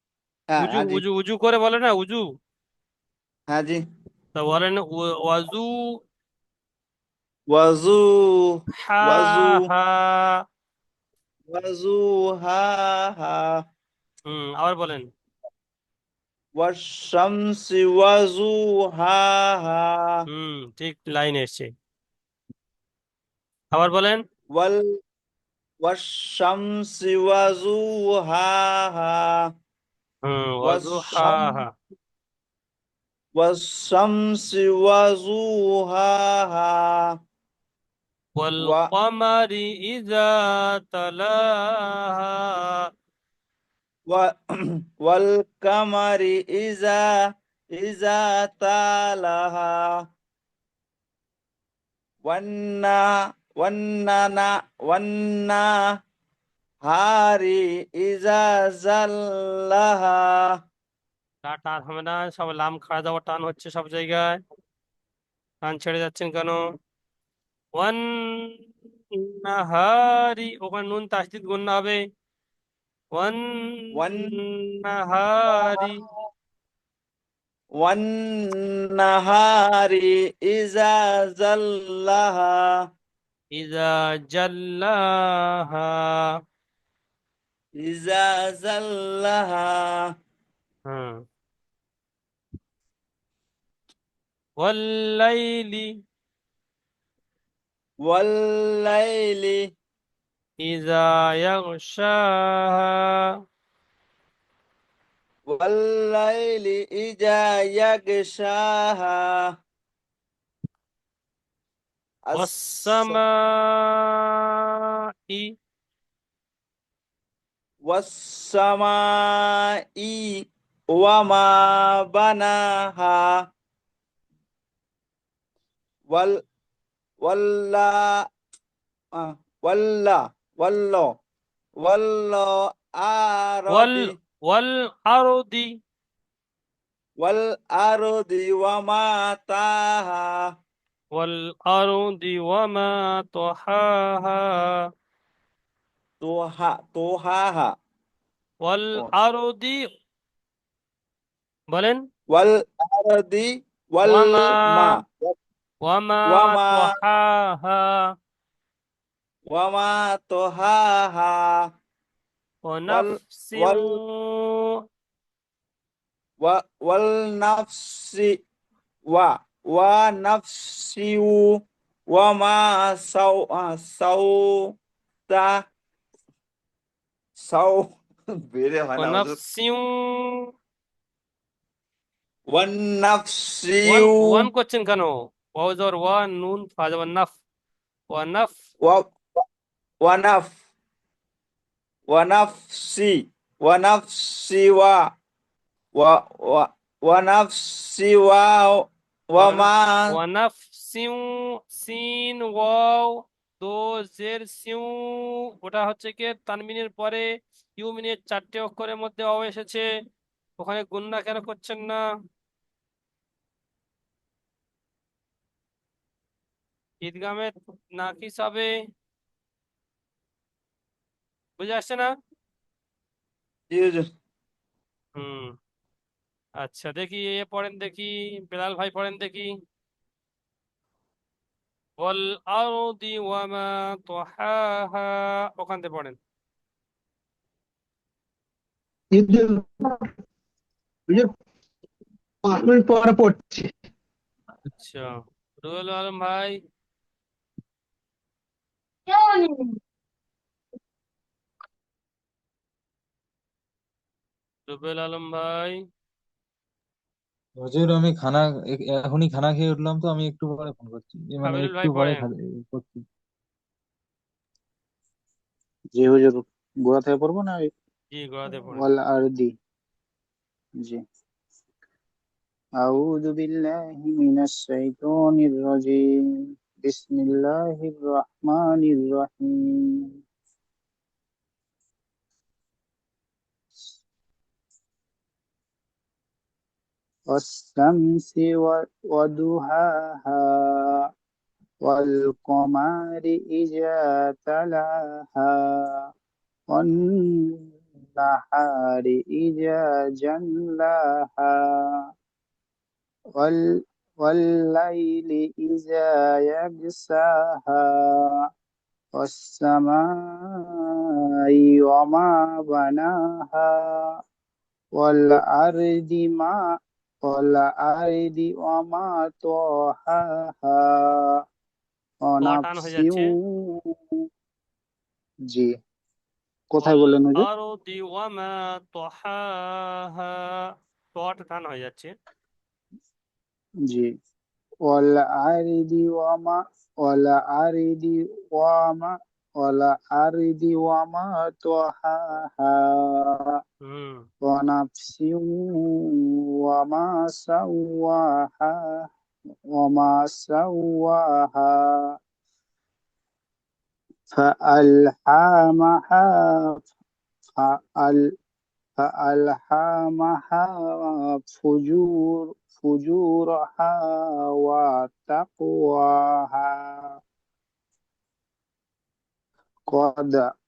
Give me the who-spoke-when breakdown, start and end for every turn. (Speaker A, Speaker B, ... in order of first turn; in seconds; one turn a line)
Speaker A: 0.5-1.0
Speaker B: 0.6-2.2
Speaker A: 3.5-3.8
Speaker B: 4.3-5.8
Speaker A: 7.5-9.7
Speaker B: 8.8-10.3
Speaker A: 11.5-13.6
Speaker B: 14.3-15.1
Speaker A: 16.6-20.2
Speaker B: 20.3-21.7
Speaker B: 23.7-24.2
Speaker A: 24.5-24.8
Speaker A: 25.8-29.4
Speaker B: 30.2-31.7
Speaker A: 30.6-31.6
Speaker A: 33.4-37.1
Speaker B: 38.4-42.4
Speaker A: 38.6-38.9
Speaker A: 44.1-50.0
Speaker A: 52.2-53.0
Speaker A: 53.5-55.7
Speaker A: 56.8-60.5
Speaker B: 61.4-64.4
Speaker B: 65.7-66.6
Speaker B: 67.8-68.5
Speaker B: 69.3-72.0
Speaker B: 73.2-76.0
Speaker A: 73.9-74.2
Speaker A: 75.5-76.1
Speaker A: 77.8-82.8
Speaker B: 83.6-85.0
Speaker B: 85.7-85.9
Speaker A: 87.8-90.1
Speaker B: 90.9-91.2
Speaker B: 94.6-95.9
Speaker A: 98.0-99.7
Speaker B: 100.6-103.0
Speaker A: 105.5-109.5
Speaker A: 112.2-113.2
Speaker B: 112.3-114.2
Speaker A: 117.8-123.5
Speaker A: 126.1-126.4
Speaker A: 127.2-128.3
Speaker A: 129.1-131.1
Speaker A: 131.8-134.1
Speaker B: 133.7-135.7
Speaker A: 137.2-140.5
Speaker B: 141.2-144.5
Speaker A: 146.2-147.7
Speaker B: 148.7-149.8
Speaker B: 151.7-152.0
Speaker A: 152.3-155.3
Speaker B: 154.1-154.9
Speaker B: 155.9-157.9
Speaker A: 156.3-156.9
Speaker A: 159.5-161.6
Speaker B: 162.7-164.5
Speaker A: 162.9-164.0
Speaker A: 166.4-168.3
Speaker A: 169.1-171.5
Speaker A: 172.1-174.8
Speaker A: 175.3-175.6
Speaker A: 177.4-177.9
Speaker A: 178.5-179.3
Speaker B: 179.0-180.4
Speaker A: 182.5-184.5
Speaker B: 183.9-187.3
Speaker B: 188.1-188.5
Speaker A: 188.8-189.4
Speaker A: 190.0-190.5
Speaker A: 192.1-195.1
Speaker A: 195.9-200.1
Speaker B: 199.4-201.2
Speaker B: 201.8-207.2
Speaker B: 207.8-209.8
Speaker B: 210.6-212.0
Speaker B: 217.0-218.7
Speaker B: 221.6-222.1
Speaker A: 223.7-224.1
Speaker B: 225.2-225.5
Speaker B: 226.6-229.5
Speaker B: 232.0-236.2
Speaker C: 239.1-240.0
Speaker C: 242.4-243.7
Speaker B: 244.8-245.1
Speaker B: 245.6-246.6
Speaker C: 249.1-249.7
Speaker B: 254.7-255.8
Speaker D: 257.6-263.0
Speaker B: 261.5-262.2
Speaker E: 266.0-267.6
Speaker B: 268.1-268.9
Speaker E: 268.5-269.5
Speaker E: 272.8-276.0
Speaker E: 276.8-280.1
Speaker E: 287.3-291.0
Speaker E: 291.9-296.0
Speaker E: 296.7-297.5
Speaker E: 298.2-301.7
Speaker E: 304.2-307.9
Speaker E: 309.2-310.0
Speaker E: 311.8-313.7
Speaker E: 315.0-316.6
Speaker E: 317.3-321.0
Speaker E: 322.3-323.3
Speaker B: 322.4-323.2
Speaker E: 326.7-327.4
Speaker B: 326.8-330.5
Speaker B: 331.1-332.1
Speaker E: 334.9-343.6
Speaker B: 343.9-344.2
Speaker E: 344.5-345.9
Speaker E: 346.7-348.8
Speaker E: 349.8-351.8
Speaker E: 354.3-356.8
Speaker E: 357.6-358.2
Speaker E: 359.0-364.0
Speaker E: 364.5-366.8
Speaker E: 369.9-370.5